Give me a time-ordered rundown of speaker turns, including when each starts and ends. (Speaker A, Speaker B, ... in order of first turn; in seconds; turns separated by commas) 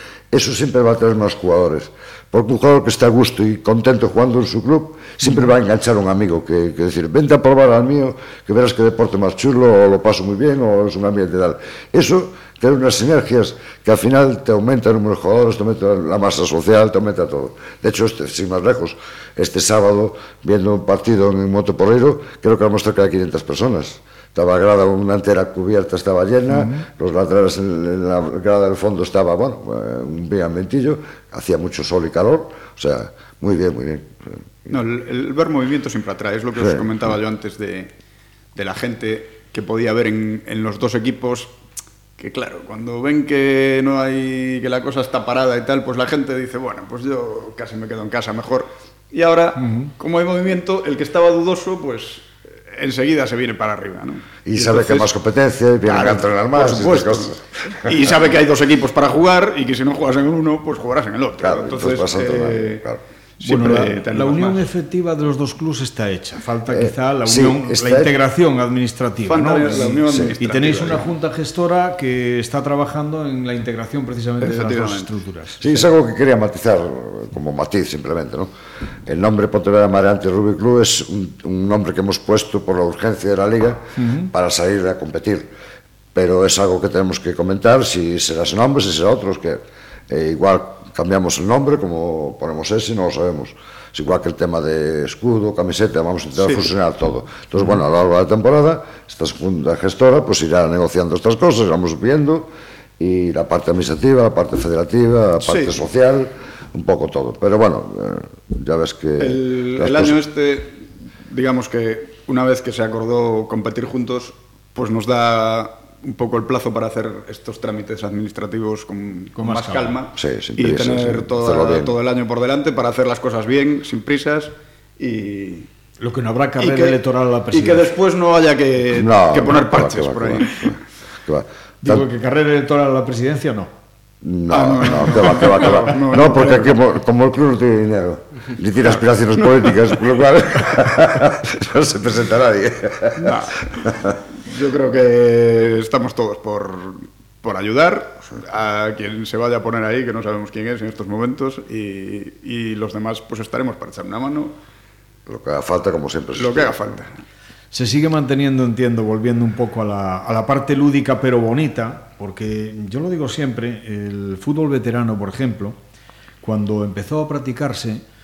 Speaker A: 0.3-34.7, Speaker B: 5.2-5.5, Speaker B: 26.5-26.9, Speaker C: 34.7-37.9, Speaker A: 36.6-36.9, Speaker C: 38.5-41.5, Speaker C: 42.2-55.1, Speaker B: 49.6-49.9, Speaker A: 54.4-57.9, Speaker C: 55.8-62.9, Speaker A: 61.4-63.0, Speaker C: 63.4-64.7, Speaker B: 63.4-75.6, Speaker A: 66.7-68.2, Speaker C: 69.2-71.0, Speaker A: 70.0-70.3, Speaker C: 74.4-75.1, Speaker A: 75.6-78.5, Speaker A: 79.0-85.5, Speaker B: 84.0-84.3, Speaker A: 86.1-110.2, Speaker C: 105.4-105.8, Speaker C: 109.2-125.7, Speaker B: 119.3-120.0, Speaker A: 120.2-122.0, Speaker B: 126.0-127.9, Speaker C: 126.6-127.0, Speaker C: 127.5-130.7, Speaker A: 128.9-132.0, Speaker B: 131.8-133.7, Speaker A: 134.2-144.2, Speaker C: 134.5-136.8, Speaker C: 143.2-143.7, Speaker C: 144.4-154.5, Speaker A: 155.3-156.8, Speaker C: 156.3-157.1, Speaker B: 157.7-165.8, Speaker B: 166.4-168.0